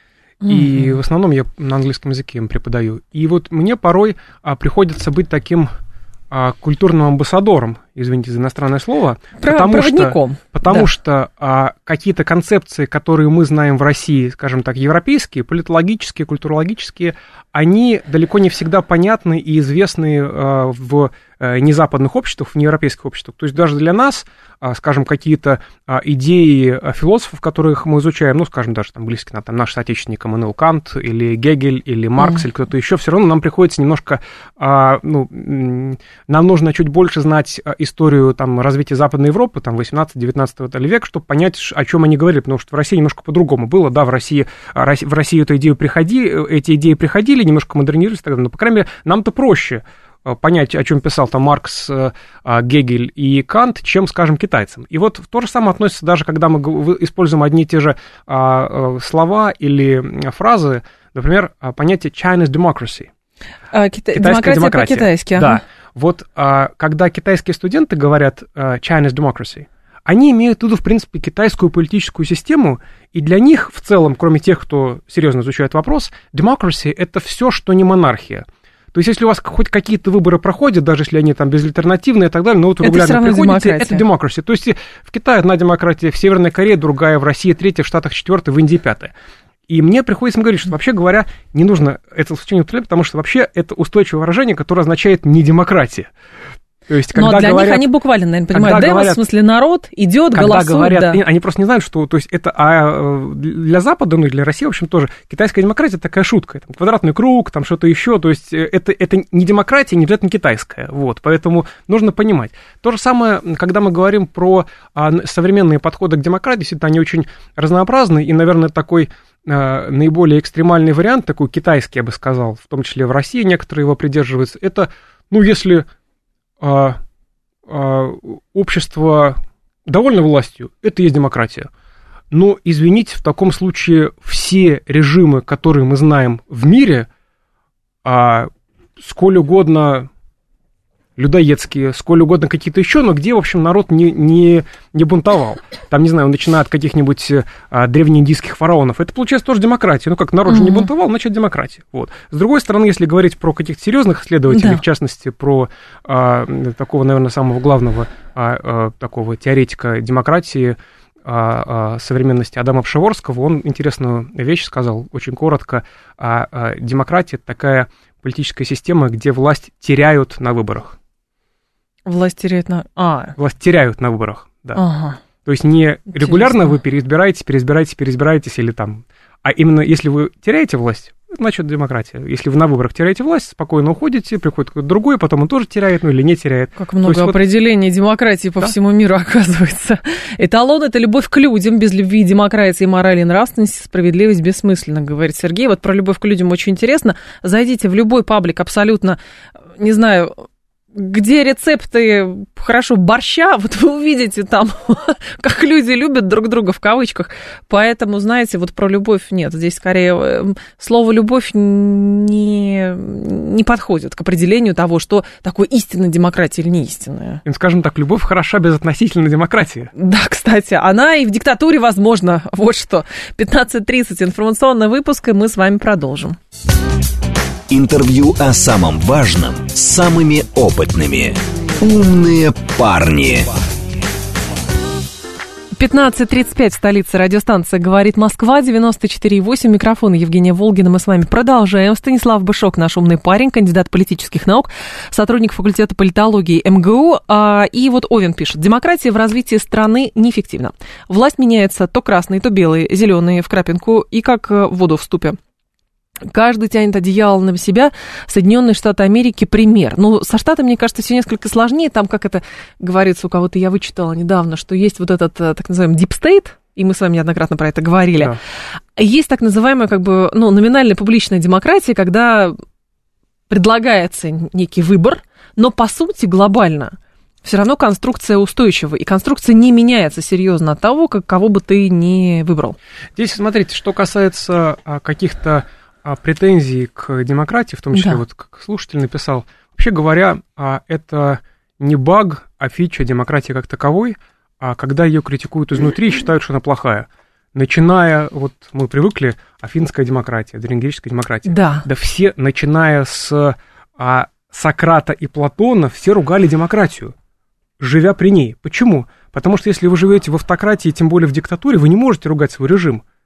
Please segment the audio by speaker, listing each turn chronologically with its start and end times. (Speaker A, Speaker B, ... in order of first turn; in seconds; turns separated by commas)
Speaker A: 0.4-1.0, Speaker B: 0.5-5.7, Speaker B: 6.3-63.1, Speaker A: 9.4-10.9, Speaker A: 63.7-65.6, Speaker B: 64.1-89.1, Speaker A: 82.8-84.0, Speaker B: 89.7-96.1, Speaker B: 96.9-97.9, Speaker A: 97.1-101.2, Speaker B: 98.5-99.2, Speaker B: 100.3-125.8, Speaker B: 126.6-127.0, Speaker B: 127.7-131.7, Speaker B: 132.3-137.1, Speaker B: 138.0-140.1, Speaker B: 141.2-170.9, Speaker A: 150.5-150.9, Speaker A: 154.5-154.8, Speaker A: 172.1-173.3, Speaker B: 173.4-174.8, Speaker A: 174.7-175.2, Speaker B: 175.4-187.4, Speaker A: 176.1-176.7, Speaker A: 186.8-199.2, Speaker A: 199.8-217.4, Speaker B: 217.4-219.9, Speaker A: 219.9-226.4, Speaker C: 227.7-233.5, Speaker A: 235.8-255.4, Speaker A: 256.2-268.4, Speaker A: 268.9-272.6, Speaker A: 273.5-282.8, Speaker B: 283.1-307.1, Speaker A: 287.9-288.2, Speaker A: 301.4-301.9, Speaker B: 307.8-313.0